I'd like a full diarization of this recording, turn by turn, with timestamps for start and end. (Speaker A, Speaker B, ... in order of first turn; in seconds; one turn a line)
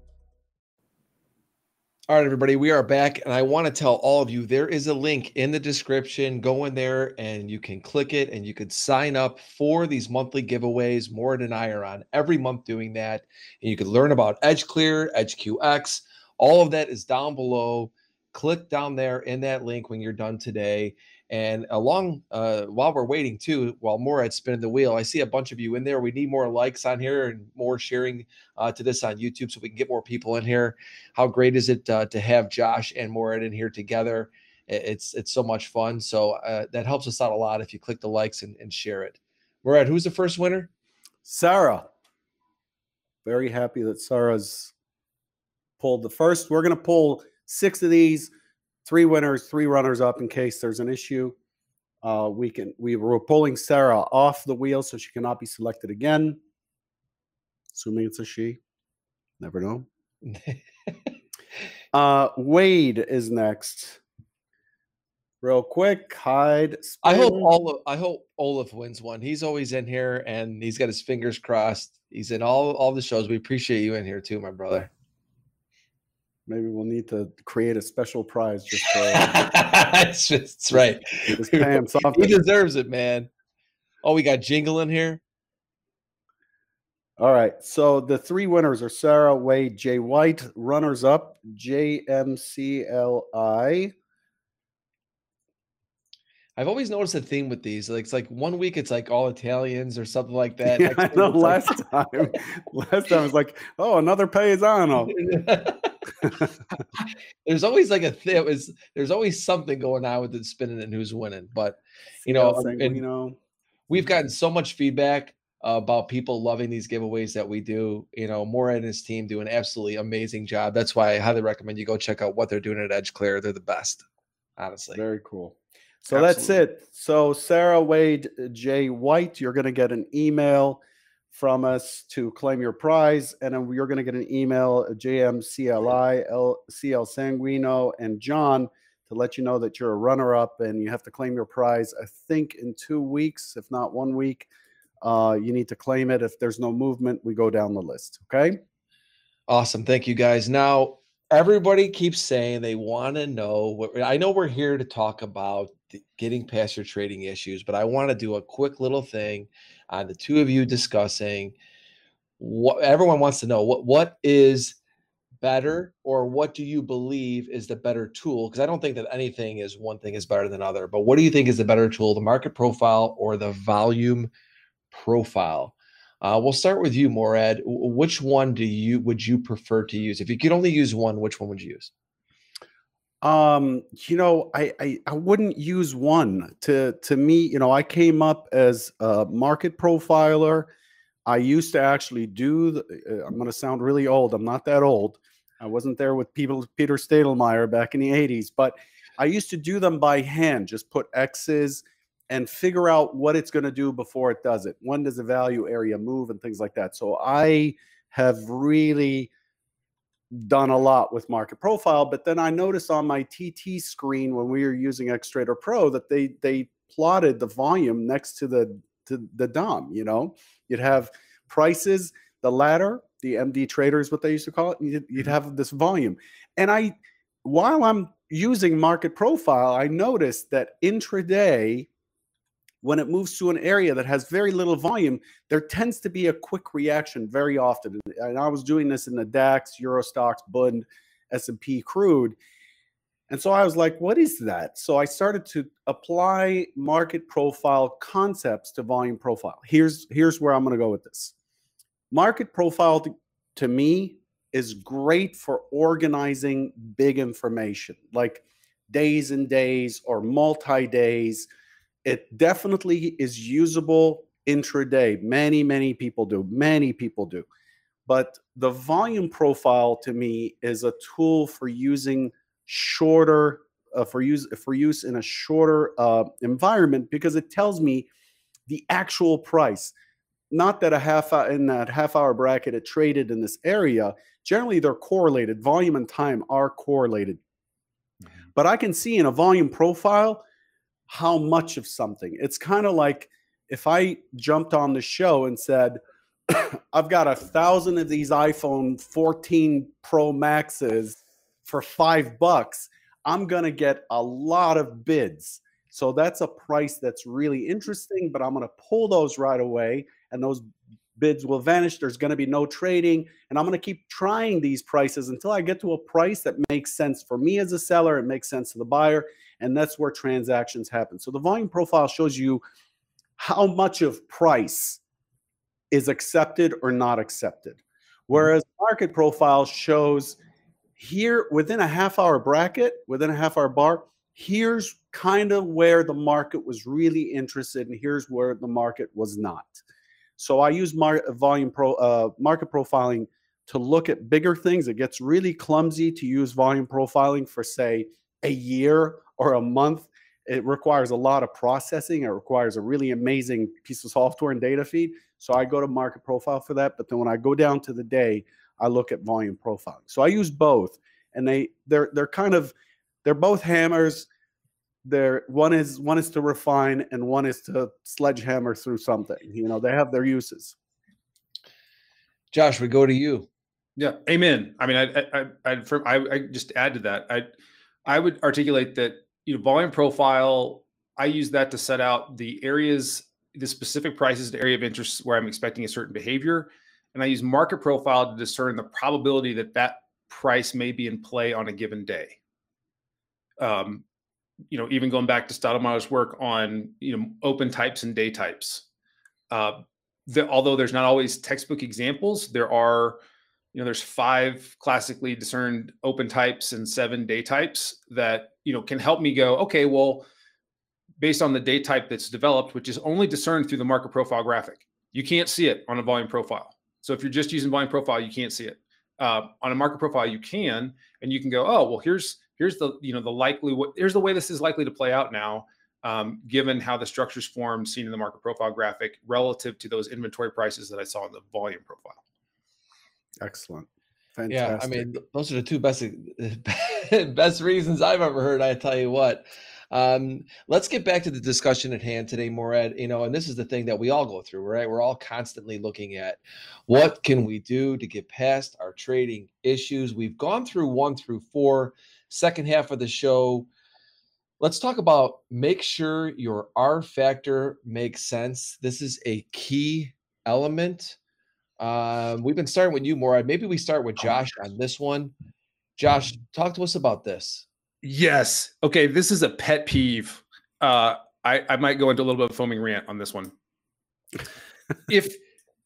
Speaker A: 2.1-40.7
Speaker B: 41.2-41.9
Speaker B: 43.2-44.7
Speaker B: 45.8-48.3
Speaker B: 48.9-51.4
Speaker B: 52.0-56.4
Speaker B: 57.7-58.6
Speaker B: 59.4-59.9
Speaker A: 60.3-60.6
Speaker B: 61.9-64.0
Speaker B: 65.4-67.5
Speaker A: 67.0-74.9
Speaker B: 76.5-79.4
Speaker A: 79.1-83.3
Speaker B: 81.3-82.4
Speaker A: 84.0-85.2
Speaker B: 87.2-93.9
Speaker A: 96.6-101.7
Speaker B: 100.7-105.2
Speaker A: 105.1-106.3
Speaker A: 107.0-113.0
Speaker B: 112.2-113.4
Speaker A: 113.9-124.0
Speaker A: 124.6-125.0
Speaker B: 124.9-125.6
Speaker B: 126.1-144.5
Speaker A: 126.1-126.5
Speaker B: 145.0-148.6
Speaker A: 149.5-161.5
Speaker A: 162.4-164.8
Speaker A: 165.4-174.3
Speaker A: 174.9-181.9
Speaker B: 183.2-190.7
Speaker B: 191.3-209.3
Speaker B: 210.3-231.9
Speaker B: 232.8-242.4
Speaker B: 243.3-251.3
Speaker B: 252.1-261.5
Speaker B: 262.1-267.5
Speaker B: 268.1-278.1
Speaker B: 278.7-279.9
Speaker B: 280.5-287.4
Speaker B: 288.6-290.4
Speaker B: 291.1-310.6
Speaker B: 311.2-322.6
Speaker B: 323.4-325.0
Speaker B: 325.9-330.4
Speaker B: 331.0-339.8
Speaker B: 340.4-364.3
Speaker B: 365.1-370.8
Speaker A: 372.5-373.5
Speaker C: 374.0-377.5
Speaker C: 378.1-392.4
Speaker C: 393.6-394.0
Speaker C: 394.7-398.9
Speaker C: 399.5-403.2
Speaker C: 403.7-410.3
Speaker C: 411.2-432.2
Speaker B: 433.4-435.1
Speaker A: 434.5-453.7
Speaker A: 454.6-461.2
Speaker A: 461.8-465.3
Speaker A: 466.0-467.7
Speaker C: 468.0-473.5
Speaker C: 475.1-475.4